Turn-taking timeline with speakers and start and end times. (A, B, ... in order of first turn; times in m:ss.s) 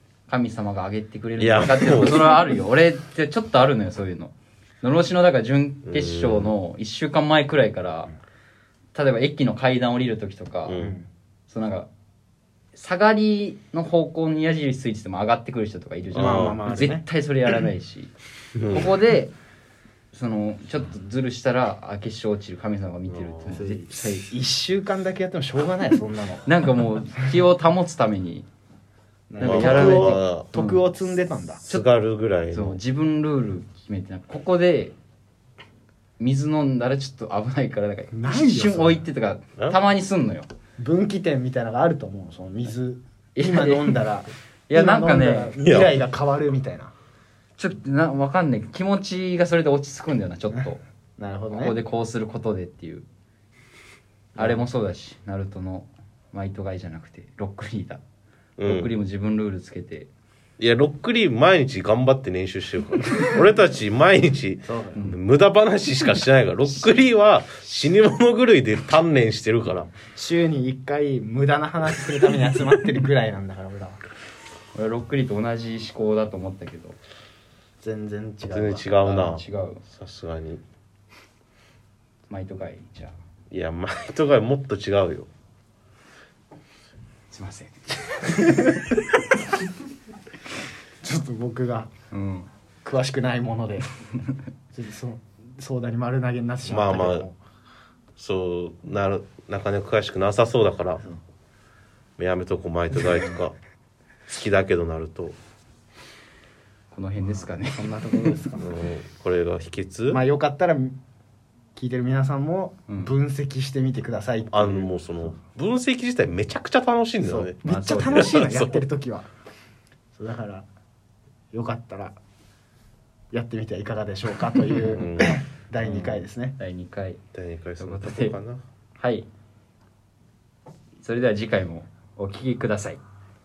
0:00.3-0:08.1 A
0:01.4-0:02.5 B
0:05.8-0:06.5 B
0:08.9-0:10.8 A
0:10.7-0:11.0 B
0:10.8-0:11.1 C
0:11.5-0:11.9 A
0:12.7-0:18.1 A
0:16.1-0:16.9 B
0:16.2-0:17.1 C
0:18.6-0:19.0 B
0:18.7-0:19.3 A
0:20.1-0:24.3 A
0:23.1-0:23.6 B
0:23.5-0:26.5 C
0:26.5-0:28.5 A
0:29.3-0:31.7 C
0:29.4-0:30.8 A
0:29.4-0:30.5 B
0:31.7-0:32.8 B
0:32.5-0:35.0 A
0:36.2-0:40.5 A
0:38.1-0:39.0 C
0:40.8-0:46.9 C
0:43.4-0:44.0 A
0:44.7-0:45.6 A
0:45.6-0:45.9 B
0:47.6-0:50.8 A
0:51.2-0:51.8 C
0:51.5-0:53.0 A
0:54.4-0:58.0 A
0:58.6-0:58.9 B
0:58.6-1:00.1 A
1:00.6-1:09.9 B
1:04.7-1:05.1 C
1:10.1-1:14.0 C
1:14.8-1:17.0 A
1:17.8-1:18.9 C
1:18.5-1:20.6 B
1:19.0-1:19.8 A
1:22.3-1:23.2 A
1:23.5-1:25.3 B
1:27.3-1:28.8 A
1:31.0-1:31.9 C
1:32.1-1:32.5 A
1:32.8-1:33.9 C
1:34.7-1:37.4 C
1:36.6-1:37.3 B
1:38.2-1:41.0 B
1:42.2-1:43.6 B
1:44.3-1:45.4 B
1:46.9-1:48.4 A
1:47.2-1:48.7 C
1:48.6-1:50.2 B
1:50.1-1:51.0 C
1:51.8-1:54.9 C
1:54.5-1:58.8 B
1:57.2-1:59.3 C
1:57.6-1:58.3 A
2:00.2-2:00.7 C
2:01.5-2:02.2 C
2:03.3-2:06.6 C
2:04.8-2:05.4 B
2:05.8-2:07.2 A
2:07.3-2:08.6 B
2:07.8-2:08.4 A
2:09.0-2:09.3 A
2:11.0-2:13.0 A